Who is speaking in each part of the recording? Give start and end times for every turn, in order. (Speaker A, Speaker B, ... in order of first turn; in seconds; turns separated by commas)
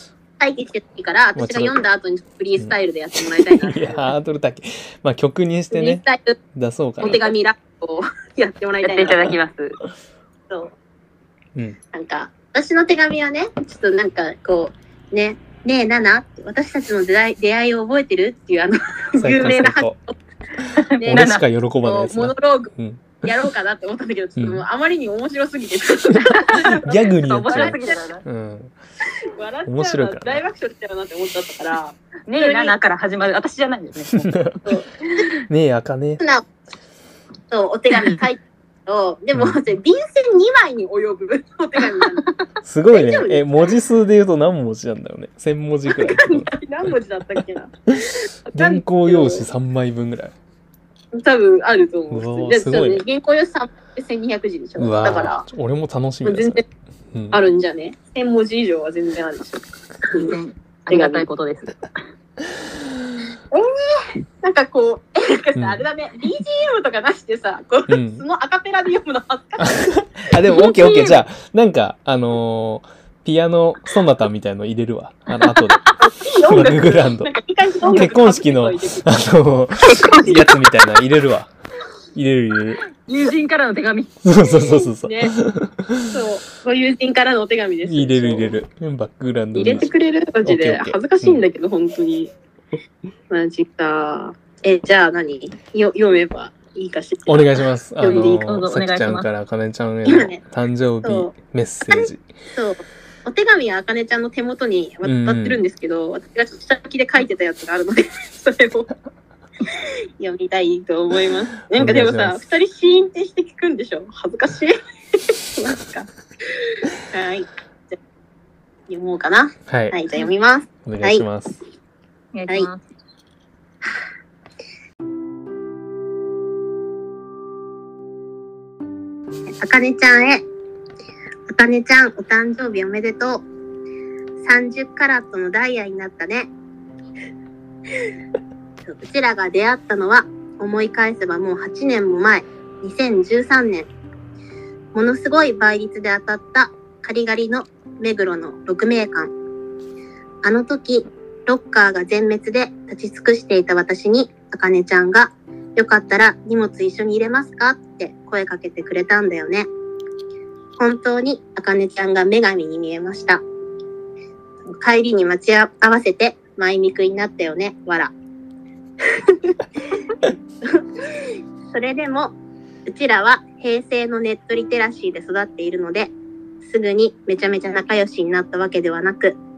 Speaker A: 0.4-4.0, Speaker B: 1.4-1.8, Speaker B: 3.3-7.2, Speaker A: 5.7-6.4, Speaker A: 7.0-9.3, Speaker C: 8.8-9.8, Speaker A: 11.9-20.1, Speaker B: 19.2-20.0, Speaker C: 20.8-21.4, Speaker A: 21.0-21.3, Speaker B: 21.1-23.2, Speaker A: 21.8-22.7, Speaker A: 23.2-28.0, Speaker B: 24.4-24.6, Speaker C: 26.3-28.2, Speaker B: 26.5-28.7, Speaker A: 29.4-32.8, Speaker B: 29.7-30.4, Speaker C: 32.3-34.3, Speaker B: 34.1-34.6, Speaker A: 34.6-35.3, Speaker B: 35.5-36.2, Speaker A: 36.2-36.5, Speaker A: 37.5-42.2, Speaker B: 42.6-46.6, Speaker A: 42.9-43.6, Speaker A: 45.9-47.7, Speaker A: 48.5-49.5, Speaker B: 48.5-50.4, Speaker A: 51.1-55.5, Speaker B: 52.1-53.0, Speaker B: 54.8-57.4, Speaker A: 56.2-56.6, Speaker A: 57.3-60.4, Speaker C: 60.1-61.9, Speaker A: 60.9-61.2, Speaker A: 63.5-70.0, Speaker B: 65.6-65.8, Speaker B: 67.9-68.2, Speaker B: 69.6-75.9, Speaker A: 70.5-71.1, Speaker C: 75.3-76.0, Speaker A: 76.0-79.1, Speaker B: 76.5-77.3, Speaker B: 77.8-81.5, Speaker C: 79.9-80.3, Speaker B: 82.2-82.8, Speaker C: 83.0-84.1, Speaker B: 84.2-86.1, Speaker A: 84.4-85.3, Speaker A: 86.1-88.5, Speaker B: 87.8-89.9, Speaker A: 89.5-92.3, Speaker B: 90.4-91.4, Speaker A: 93.3-98.5, Speaker B: 97.3-102.2, Speaker C: 98.0-99.3, Speaker A: 100.1-100.4, Speaker A: 101.0-101.3, Speaker A: 101.9-108.9, Speaker B: 105.0-105.6, Speaker A: 109.8-114.8, Speaker B: 111.7-112.4, Speaker A: 115.3-116.1, Speaker A: 117.1-118.0, Speaker A: 118.9-121.2, Speaker B: 119.7-120.0, Speaker B: 120.8-121.6, Speaker C: 122.3-122.8, Speaker A: 129.6-130.4, Speaker A: 131.5-133.5, Speaker A: 134.4-136.5, Speaker A: 138.9-143.9, Speaker A: 144.9-149.3, Speaker A: 150.4-159.7, Speaker A: 160.8-163.4, Speaker A: 164.7-168.1, Speaker A: 169.2-169.6, Speaker A: 171.7-172.3, Speaker A: 172.9-179.4